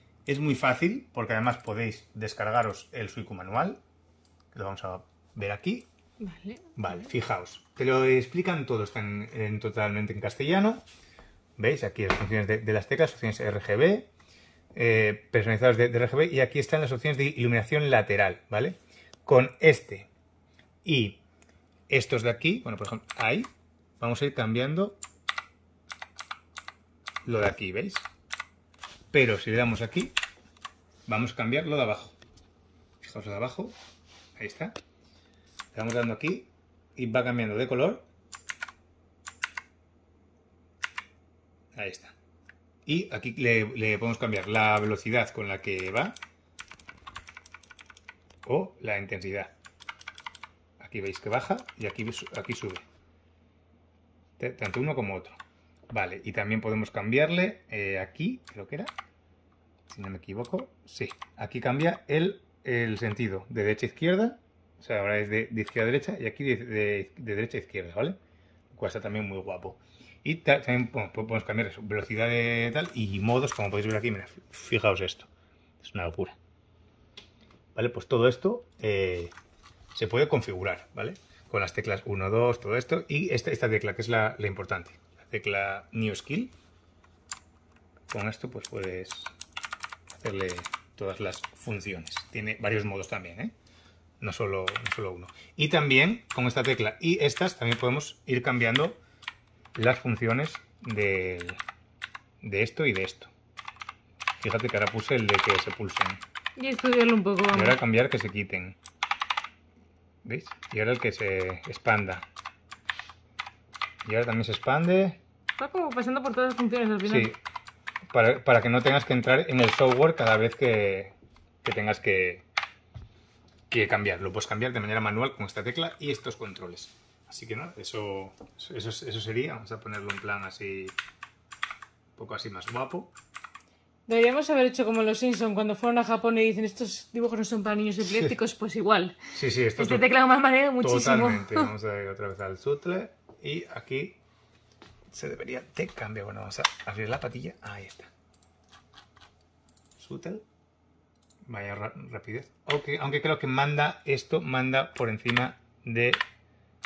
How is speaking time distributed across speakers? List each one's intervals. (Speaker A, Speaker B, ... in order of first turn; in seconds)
Speaker A: 0.3-3.8, 4.5-5.9, 6.8-10.8, 11.6-14.1, 14.7-20.1, 20.9-21.2, 21.9-25.0, 27.2-28.1, 29.1-30.2, 31.1-32.2, 33.0-33.8, 34.4-34.8, 35.7-38.1, 41.8-42.1, 42.9-46.2, 48.5-49.5, 50.8-52.8, 54.4-55.4, 55.9-58.9, 59.9-68.2, 68.7-75.3, 75.8-76.4, 77.8-79.3, 79.9-86.5, 88.1-89.3, 90.1-93.5, 94.2-99.0, 99.8-101.6, 102.4-103.3, 104.4-106.2, 107.5-108.8, 110.2-112.3, 114.0-115.2, 117.0-117.4, 118.1-122.5, 123.7-131.0, 132.2-133.1, 138.0-138.3, 139.3-140.1, 140.8-144.2, 145.1-148.1, 150.0-150.4, 151.5-156.2
Speaker B: 6.2-7.1, 106.6-107.8, 115.6-117.3, 134.1-141.7